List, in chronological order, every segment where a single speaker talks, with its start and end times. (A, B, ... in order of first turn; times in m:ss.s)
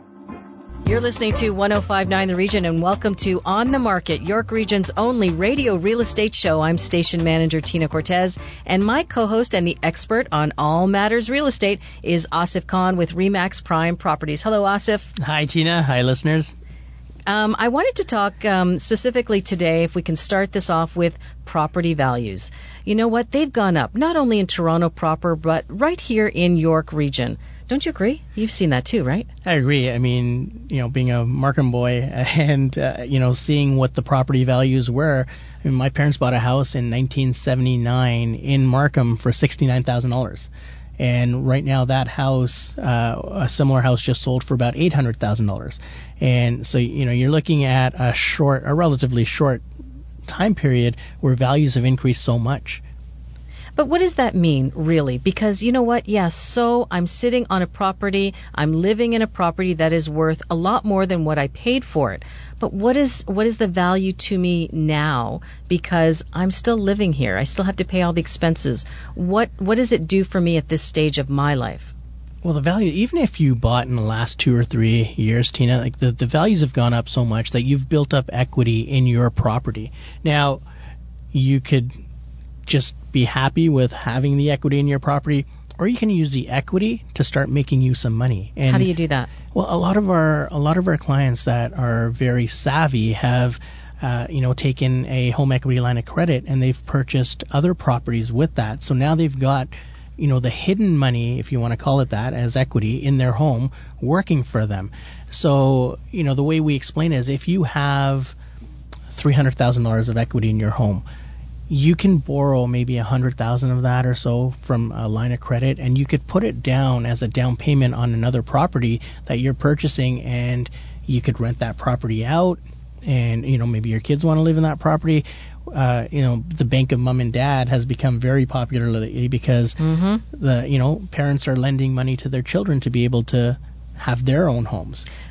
0:00.8-0:15.1 A
0:15.2-0:16.5 B
0:17.3-0:29.3 A
0:29.4-0:49.6 B
0:50.2-0:52.8 B
0:53.8-1:11.9 A
1:12.4-1:20.6 B
1:21.3-1:22.0 B
1:22.7-1:28.9 B
1:28.6-1:29.3 A
1:29.5-1:48.4 B
1:49.1-1:51.0 B
1:51.7-2:09.8 B
2:09.8-2:10.2 A
2:10.3-2:15.1 B